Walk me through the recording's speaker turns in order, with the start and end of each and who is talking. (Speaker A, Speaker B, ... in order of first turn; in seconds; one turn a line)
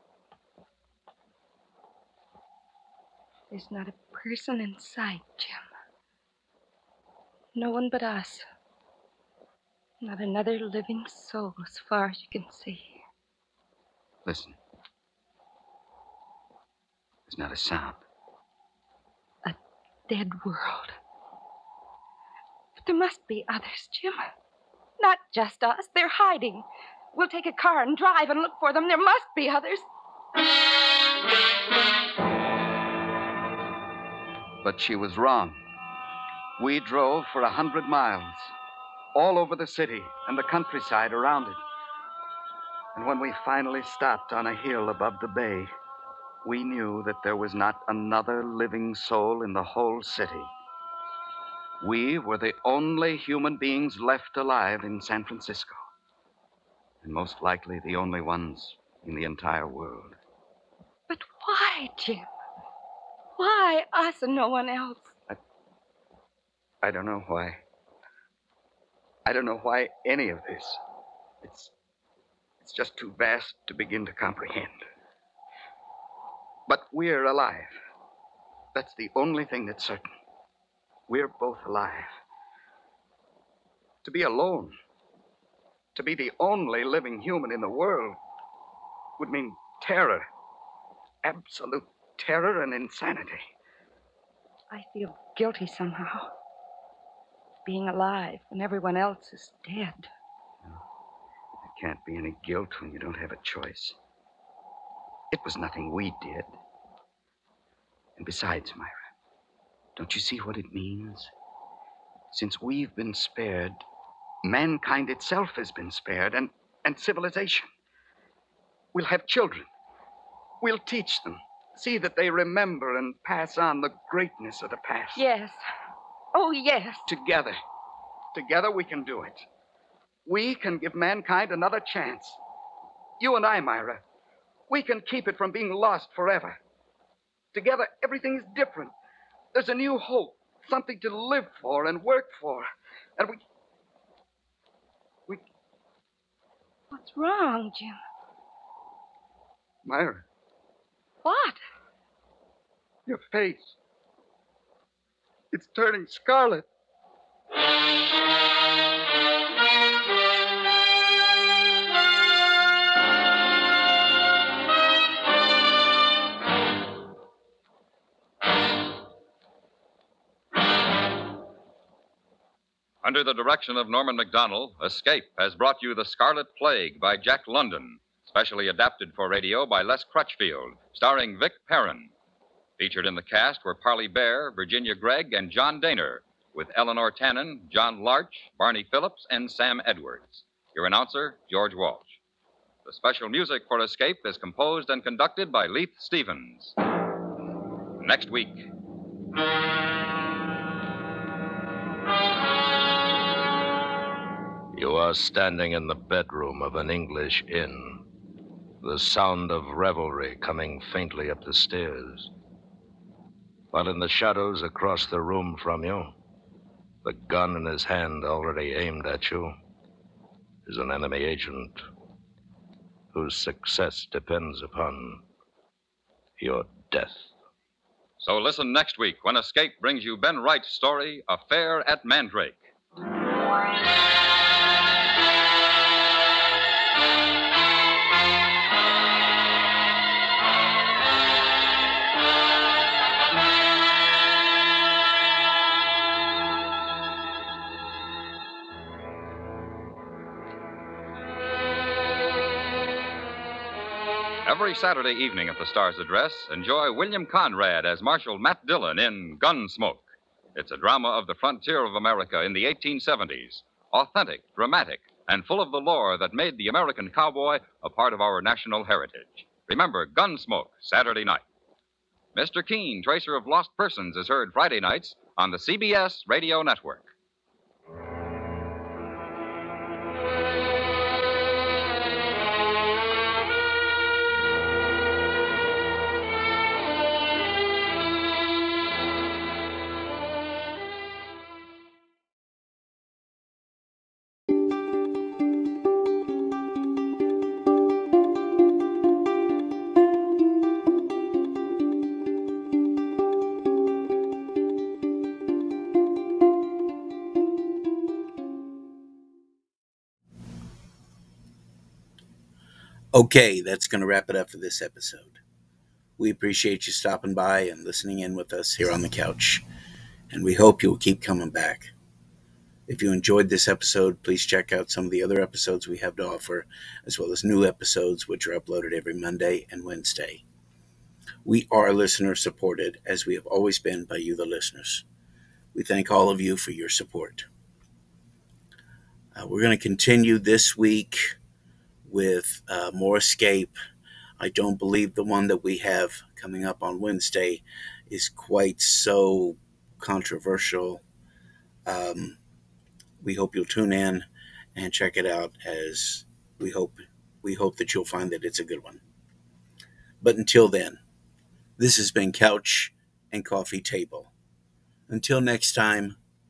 Speaker A: 3.5-5.6
Speaker A: 7.5-8.5
Speaker A: 10.0-13.0
Speaker B: 14.2-14.6
Speaker B: 17.3-18.0
Speaker A: 20.1-21.0
Speaker A: 22.8-24.2
Speaker A: 25.0-29.9
Speaker B: 34.6-35.6
Speaker B: 36.6-38.5
Speaker B: 39.1-41.6
Speaker B: 43.0-45.7
Speaker B: 46.4-50.5
Speaker B: 51.8-55.8
Speaker B: 57.0-60.2
Speaker A: 61.1-62.3
Speaker A: 63.4-65.1
Speaker B: 66.8-67.6
Speaker B: 69.3-70.8
Speaker B: 71.4-71.7
Speaker B: 72.6-74.8
Speaker B: 76.7-77.8
Speaker B: 78.7-80.1
Speaker B: 81.1-82.1
Speaker B: 84.0-84.7
Speaker B: 86.0-88.2
Speaker B: 89.2-90.3
Speaker B: 91.2-93.5
Speaker A: 94.7-96.3
Speaker A: 97.7-100.1
Speaker B: 101.6-104.0
Speaker B: 105.3-106.5
Speaker B: 108.2-108.9
Speaker B: 110.0-111.3
Speaker B: 112.3-113.8
Speaker B: 114.4-117.7
Speaker B: 118.9-119.7
Speaker B: 120.6-125.2
Speaker A: 125.2-125.6
Speaker A: 126.3-127.1
Speaker B: 127.1-127.6
Speaker B: 128.3-129.5
Speaker B: 130.3-132.4
Speaker B: 133.2-134.0
Speaker B: 134.7-136.6
Speaker B: 137.5-138.9
Speaker B: 139.5-143.4
Speaker A: 146.9-148.0
Speaker B: 149.8-150.2
Speaker A: 151.2-151.6
Speaker B: 153.1-153.8
Speaker B: 155.5-156.7
Speaker C: 173.0-182.1
Speaker C: 182.8-192.2
Speaker C: 192.8-196.7
Speaker C: 198.0-198.7
Speaker D: 204.7-208.0
Speaker D: 208.8-212.3
Speaker D: 213.7-216.2
Speaker D: 217.0-219.6
Speaker D: 220.7-221.8
Speaker D: 223.1-225.2
Speaker D: 226.4-227.3
Speaker C: 228.2-232.7
Speaker C: 254.4-271.4
Speaker C: 272.4-277.1
Speaker E: 313.1-315.4
Speaker E: 316.2-319.6
Speaker E: 320.3-321.9
Speaker E: 322.9-330.4
Speaker E: 331.4-335.0
Speaker E: 335.7-337.5
Speaker E: 339.4-341.4
Speaker E: 342.1-343.8
Speaker E: 344.4-351.0
Speaker E: 351.9-352.4
Speaker E: 353.2-359.0
Speaker E: 360.2-361.0
Speaker E: 361.8-364.3
Speaker E: 365.1-366.2